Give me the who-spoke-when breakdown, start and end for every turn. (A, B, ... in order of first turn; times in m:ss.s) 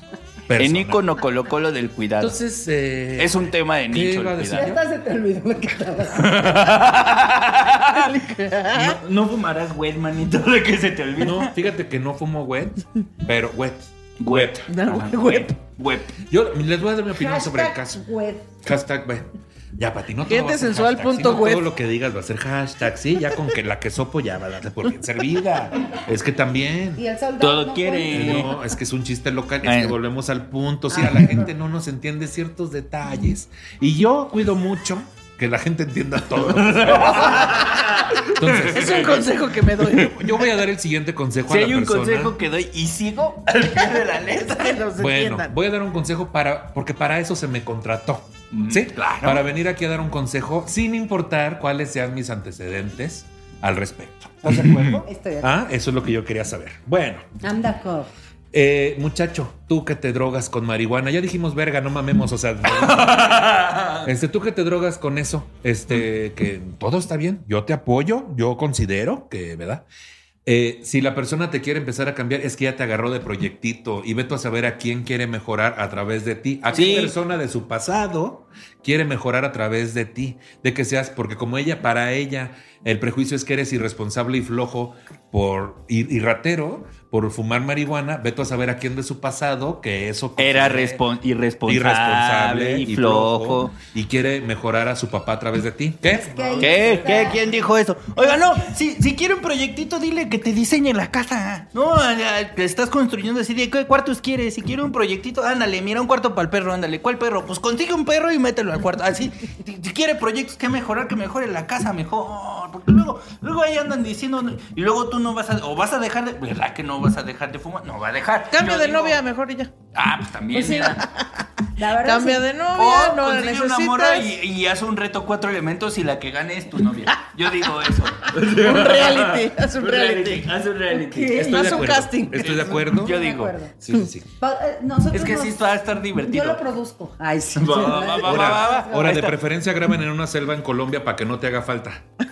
0:00.5-0:01.1 A
0:00.6-0:02.4 B
0:02.2-0:04.8 A
0:03.2-0:04.8 B
0:04.5-0:06.6 C
0:06.1-0:08.1 B
0:07.8-0:09.0 D
0:08.7-0:11.5 B
0:11.2-0:14.7 A
0:14.2-0:16.2 B
0:14.7-0:15.5 D
0:16.3-0:18.0 A
0:17.1-0:18.5 C
0:18.6-0:27.0 A
0:20.3-0:21.7 D
0:27.0-0:28.5 C
0:27.4-0:28.5 B
0:28.0-0:39.2 A
0:29.6-0:30.0 B
0:36.4-0:39.3 B
0:38.7-0:40.2 D
0:39.9-0:42.3 A
0:41.5-0:44.9 B
0:44.2-0:45.5 D
0:45.0-0:57.2 A
0:48.5-0:49.4 B
0:54.5-0:55.0 B
0:55.0-0:55.5 C
0:57.4-0:58.1 C
0:58.5-1:09.9 A
1:02.7-1:04.1 B
1:10.4-1:31.0 A
1:16.7-1:17.2 B
1:30.4-1:33.7 B
1:31.6-1:37.0 A
1:36.1-1:37.6 C
1:36.6-1:37.3 D
1:36.6-1:59.2 B
1:58.5-1:59.7 D
1:59.9-2:01.1 B
2:00.5-2:01.1 D
2:01.8-2:02.5 C
2:02.0-2:04.4 D
2:02.7-2:13.6 B
2:08.4-2:12.8 D
2:11.4-2:13.2 A
2:13.0-2:13.8 C
2:13.8-2:14.2 A
2:14.4-2:19.3 C
2:15.1-2:16.6 B
2:17.5-2:19.4 B
2:18.2-2:22.0 A